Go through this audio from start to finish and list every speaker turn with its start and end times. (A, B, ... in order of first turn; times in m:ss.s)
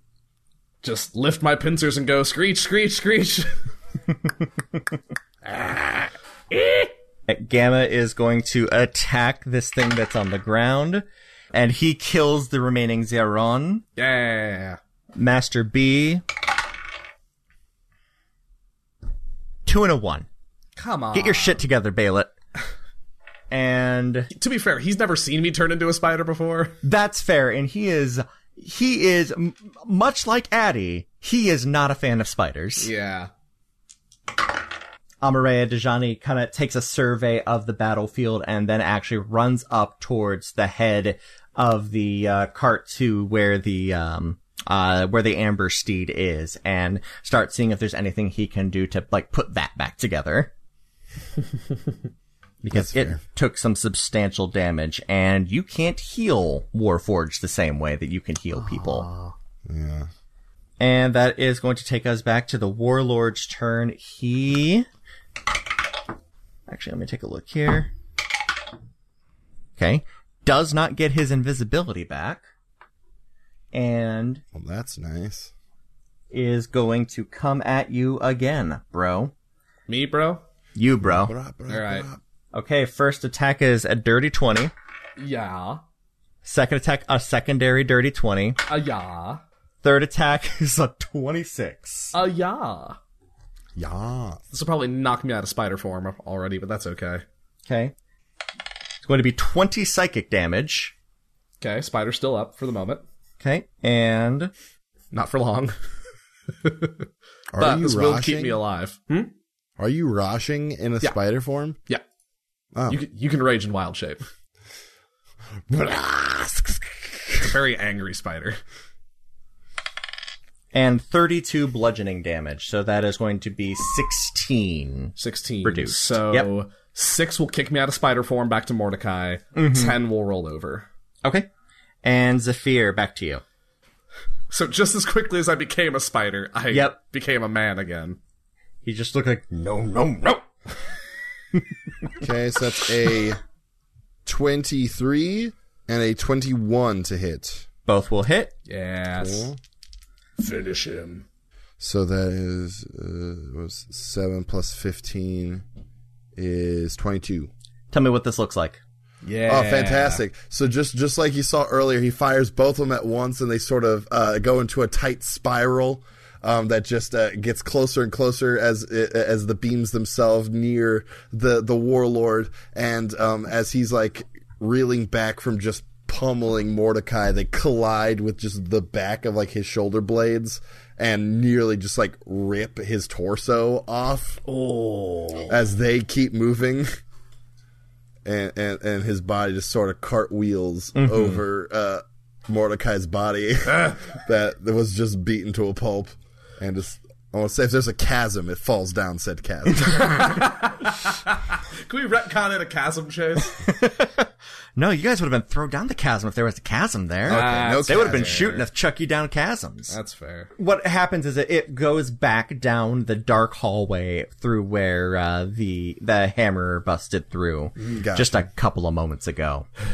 0:00.8-0:03.6 A
0:05.4-0:06.9 A
0:07.3-0:13.8 B
0:14.0-0:14.8 A
0:15.1-0:16.2 B
0:19.6-0:20.3 B
0:20.8-0:21.6 A
0:21.1-0:22.3 B
0:23.5-0:24.3 B
0:24.3-0:26.8 A
0:26.8-0:32.9 B
0:32.8-0:33.3 A
0:35.2-0:50.5 B
0:52.6-0:53.2 C
0:52.6-0:59.1 B
0:58.7-0:59.3 A
0:59.6-1:00.1 C
1:00.8-1:04.9 B
1:06.7-1:07.9 B
1:09.8-1:12.4 B
1:13.7-1:14.4 B
1:14.5-1:15.5 C
1:16.3-1:19.3 B
1:19.9-1:20.4 A
1:20.8-1:21.3 B
1:21.0-1:22.2 C
1:21.7-1:22.1 A
1:22.5-1:24.7 B
1:25.2-1:25.8 A
1:26.4-1:28.6 B
1:28.7-1:29.4 A
1:29.8-1:32.1 B
1:32.1-1:33.0 A
1:33.8-1:34.4 C
1:34.5-1:37.2 A
1:37.6-1:37.9 B
1:39.0-1:40.9 B
1:41.6-1:43.0 A
1:43.4-1:44.5 B
1:45.1-1:45.8 A
1:46.6-1:47.0 A
1:47.5-1:48.6 C
1:47.6-1:49.3 A
1:49.8-1:51.8 C
1:52.9-1:54.2 A
1:55.7-1:57.5 C
1:57.4-1:58.6 A
2:00.7-2:06.5 B
2:05.2-2:10.9 A
2:09.5-2:10.0 B
2:12.0-2:13.4 B
2:14.5-2:18.2 A
2:16.7-2:17.0 B
2:18.8-2:20.4 B
2:22.2-2:23.4 C
2:24.2-2:27.7 C
2:27.9-2:28.5 B
2:28.7-2:29.5 A
2:29.2-2:29.6 C
2:30.4-2:31.2 A
2:31.8-2:35.6 C
2:36.3-2:37.5 C
2:37.9-2:38.8 B
2:39.2-2:40.2 A
2:39.5-3:04.4 C
3:04.4-3:05.6 A
3:05.5-3:06.9 C
3:08.2-3:20.5 C
3:10.9-3:11.4 B
3:13.7-3:14.0 A
3:20.0-3:23.6 A
3:23.6-3:30.0 B
3:27.3-3:28.6 C
3:27.3-3:28.7 A
3:29.9-3:30.5 A
3:30.6-3:39.7 B
3:37.9-3:38.5 C